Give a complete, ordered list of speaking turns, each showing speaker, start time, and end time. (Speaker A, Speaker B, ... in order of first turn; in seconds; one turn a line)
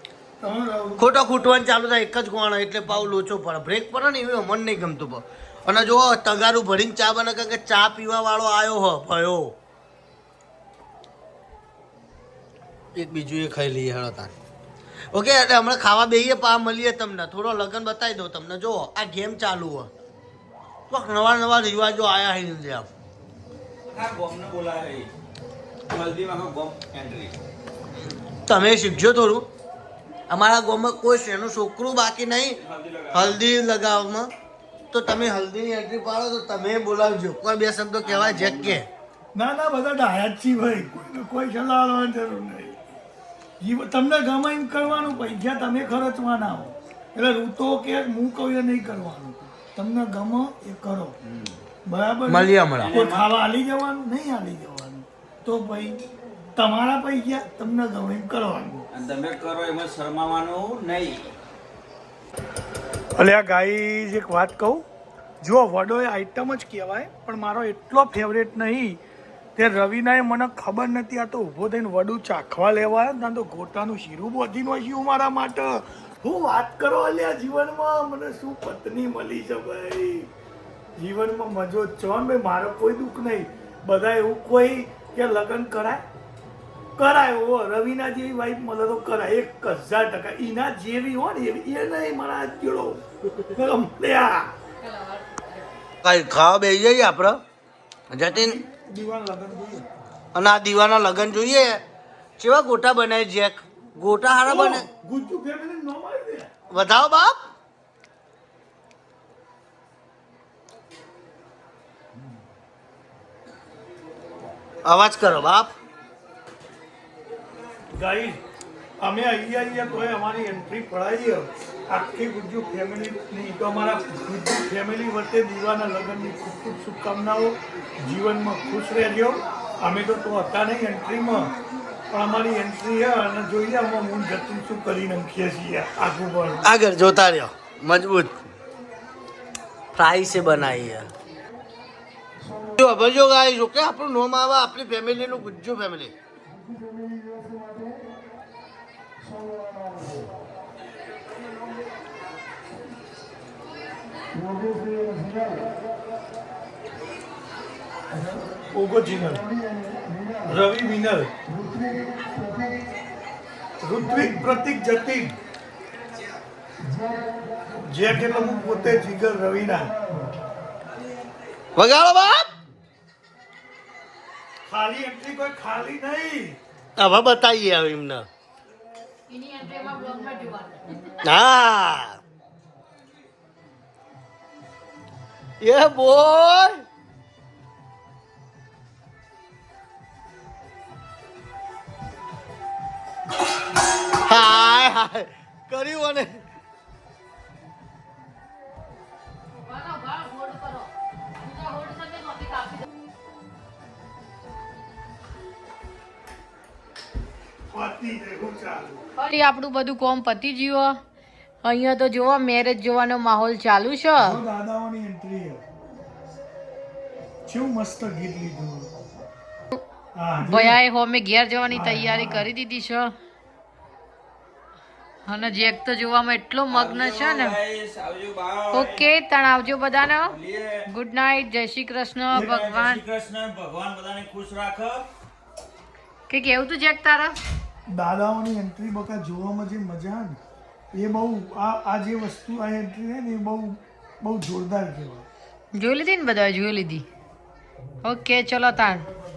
Speaker A: 0.4-1.2
Speaker B: 1.0-9.5
Speaker B: 13.0-14.3
Speaker B: 15.1-19.9
Speaker B: 20.9-22.9
Speaker C: 23.9-25.1
Speaker C: 25.9-27.3
Speaker B: 28.5-29.5
Speaker B: 30.3-32.6
Speaker C: 32.6-33.3
Speaker B: 33.1-34.3
Speaker B: 34.9-38.9
Speaker C: 38.0-38.8
Speaker A: 39.4-42.8
Speaker A: 43.6-51.1
Speaker A: 51.9-56.0
Speaker B: 52.3-52.9
Speaker C: 52.9-53.3
Speaker A: 56.6-58.9
Speaker C: 58.9-61.3
Speaker A: 63.2-64.8
Speaker A: 65.4-69.0
Speaker A: 69.6-80.3
Speaker A: 81.0-86.0
Speaker A: 87.0-93.0
Speaker A: 93.5-94.5
Speaker D: 94.8-95.4
Speaker B: 96.0-97.4
Speaker B: 98.1-98.6
Speaker A: 98.3-99.9
Speaker B: 100.3-101.8
Speaker B: 102.4-104.9
Speaker A: 104.4-106.5
Speaker B: 106.7-107.4
Speaker B: 114.9-115.7
Speaker A: 117.9-118.4
Speaker A: 119.0-131.5
Speaker A: 132.1-136.7
Speaker B: 136.7-138.3
Speaker B: 139.9-141.1
Speaker B: 142.8-146.1
Speaker A: 158.7-159.5
Speaker A: 160.5-161.3
Speaker A: 163.8-165.4
Speaker A: 167.9-169.9
Speaker B: 171.8-172.5
Speaker A: 174.7-176.6
Speaker B: 177.0-178.3
Speaker D: 179.3-180.8
Speaker B: 181.2-182.2
Speaker B: 185.6-186.8
Speaker B: 194.2-196.4
Speaker D: 199.7-200.9
Speaker D: 201.4-202.8
Speaker A: 207.7-209.0
Speaker D: 209.2-210.9
Speaker D: 211.6-214.4
Speaker A: 214.2-215.6
Speaker A: 217.5-218.9
Speaker A: 220.2-220.8
Speaker D: 220.4-223.1
Speaker A: 221.7-222.5
Speaker D: 225.3-227.7
Speaker C: 226.7-228.9
Speaker D: 228.7-233.0
Speaker C: 230.3-230.7
Speaker A: 232.3-232.6
Speaker C: 232.6-235.0
Speaker D: 236.3-237.4
Speaker A: 237.9-240.4
Speaker A: 240.9-245.3
Speaker D: 245.8-247.1
Speaker D: 248.0-249.1